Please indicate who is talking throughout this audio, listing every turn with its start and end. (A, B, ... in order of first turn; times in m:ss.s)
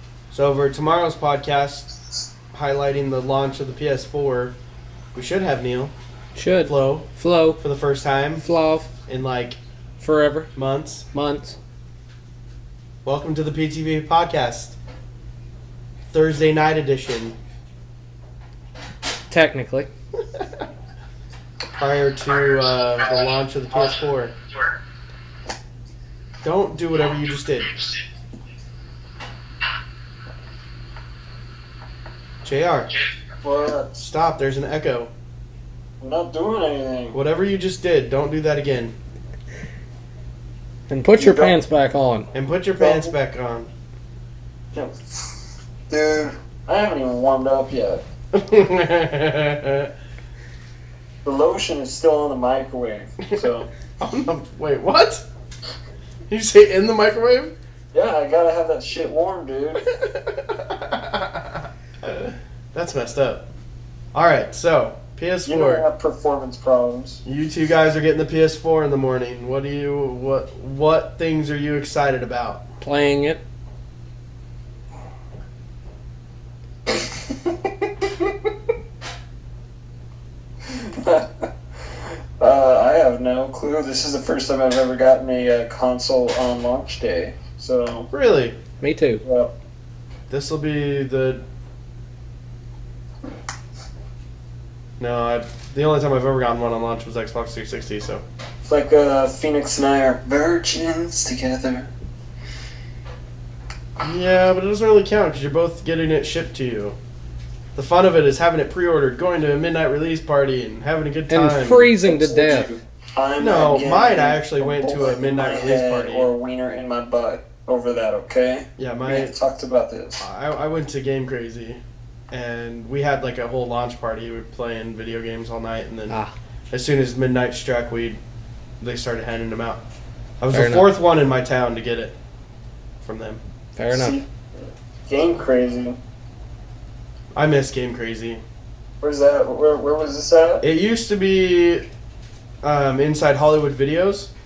0:00.3-0:01.9 A
0:02.5-0:04.6 A
0:05.1-0:05.9 A
0:06.3-0:07.6 B
0:06.6-0:08.4 A
0:08.4-0:08.9 B
0:09.1-0:09.6 A
0:10.0-0:10.5 B
0:10.5-0:11.1 A
0:11.1-0:11.6 B
0:13.0-0:14.8 A
0:16.1-0:17.4 A
0:19.3-0:19.9 B
0:21.8-0:24.4 A
0:26.4-0:27.8 A
0:32.4-0:32.9 A
0:33.4-0:34.0 C
0:34.0-0:35.1 A
0:36.0-0:37.2 C
0:37.1-0:39.0 A
0:40.9-0:42.3 B
0:41.2-0:41.6 C
0:42.3-0:43.7 A
0:42.8-0:43.1 C
0:44.7-0:48.0 C
0:48.3-0:49.9 A
0:51.2-0:53.7 C
0:54.0-0:55.2 A
0:56.3-0:57.5 A
0:57.9-0:59.9 C
0:59.9-1:03.5 A
1:04.1-1:05.9 A
1:05.4-1:07.2 C
1:07.2-1:12.6 A
1:12.8-1:13.4 B
1:16.9-1:17.7 C
1:20.7-1:28.1 C
1:28.1-1:28.6 A
1:28.8-1:29.2 B
1:29.2-1:29.5 C
1:30.3-1:31.4 A
1:35.0-1:38.2 A
1:38.6-1:41.9 C
1:44.0-1:47.0 A
1:47.8-1:51.9 A
1:51.3-1:52.7 B
1:52.0-2:00.2 C
1:53.4-1:56.3 A
1:58.8-1:59.3 A
2:00.2-2:01.8 A
2:02.3-2:06.2 A
2:06.1-2:06.3 B
2:06.7-2:08.2 A
2:08.8-2:09.8 A
2:10.4-2:12.2 A
2:10.5-2:10.9 B
2:13.0-2:13.4 A
2:13.8-2:14.2 B
2:13.9-2:14.2 C
2:15.0-2:16.0 C
2:17.3-2:18.4 A
2:19.0-2:20.6 C
2:20.6-2:21.9 A
2:22.6-2:24.3 A